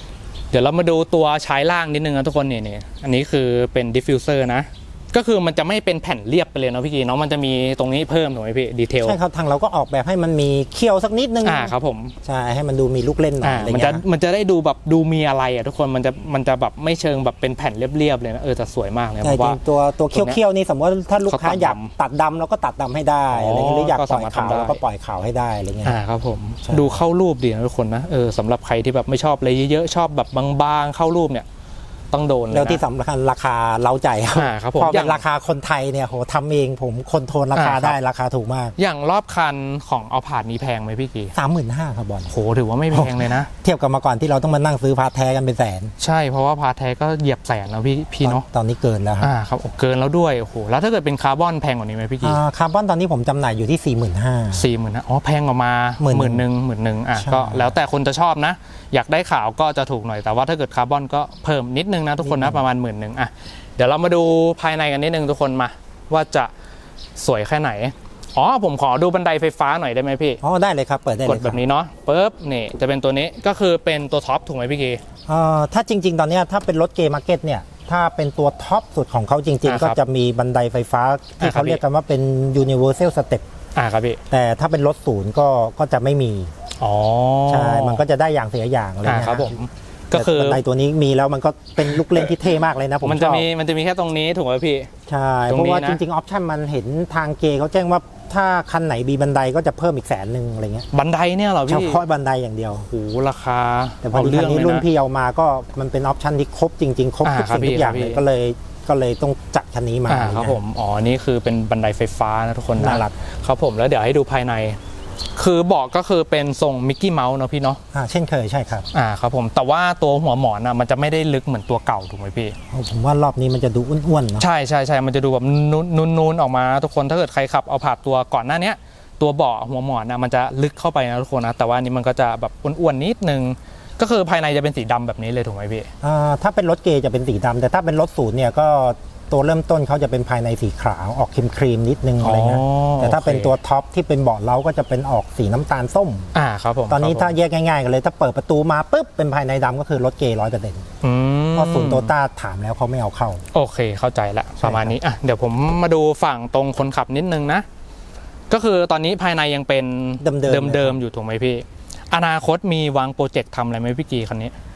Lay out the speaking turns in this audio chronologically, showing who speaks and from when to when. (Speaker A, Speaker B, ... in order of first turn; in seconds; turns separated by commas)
Speaker A: 0.5-9.2, Speaker B: 9.0-11.7, Speaker A: 11.4-12.2, Speaker B: 12.2-14.0, Speaker A: 13.4-19.6, Speaker B: 19.2-26.0, Speaker A: 20.1-20.4, Speaker A: 21.3-21.9, Speaker A: 23.3-24.8, Speaker A: 25.9-31.5, Speaker B: 26.7-27.0, Speaker A: 32.1-32.8, Speaker B: 32.5-38.8, Speaker A: 34.3-35.2, Speaker A: 37.5-38.0, Speaker A: 38.8-41.3, Speaker B: 41.4-42.3, Speaker A: 42.3-43.5, Speaker B: 42.9-45.9, Speaker A: 46.0-48.5, Speaker B: 48.2-49.3, Speaker A: 49.2-52.4, Speaker B: 52.2-54.6, Speaker A: 54.5-66.5, Speaker B: 56.0-56.5, Speaker B: 57.2-57.8, Speaker B: 62.2-62.6, Speaker A: 67.2-70.4, Speaker B: 70.4-71.6, Speaker A: 71.2-75.0, Speaker B: 75.3-83.5, Speaker A: 79.7-80.0, Speaker A: 81.4-81.8, Speaker A: 83.8-84.2, Speaker B: 84.3-86.5, Speaker A: 86.8-88.0, Speaker B: 87.5-89.6, Speaker A: 89.0-90.6, Speaker B: 90.1-93.5, Speaker A: 93.0-94.9, Speaker B: 95.1-100.9, Speaker A: 95.5-96.0, Speaker A: 100.9-102.0, Speaker B: 101.7-102.9, Speaker A: 102.8-104.8, Speaker B: 104.0-110.6, Speaker A: 107.2-108.2, Speaker A: 110.1-114.8, Speaker B: 112.8-113.1, Speaker A: 115.4-117.8, Speaker B: 117.9-118.9, Speaker A: 118.9-122.6, Speaker B: 122.7-124.5, Speaker A: 124.4-135.9, Speaker B: 136.0-146.3, Speaker A: 142.2-143.6, Speaker A: 146.3-147.3, Speaker B: 146.9-150.9, Speaker A: 151.0-152.1, Speaker B: 151.5-153.4, Speaker A: 153.5-157.7, Speaker B: 154.6-155.0, Speaker A: 158.5-164.5, Speaker B: 160.2-161.0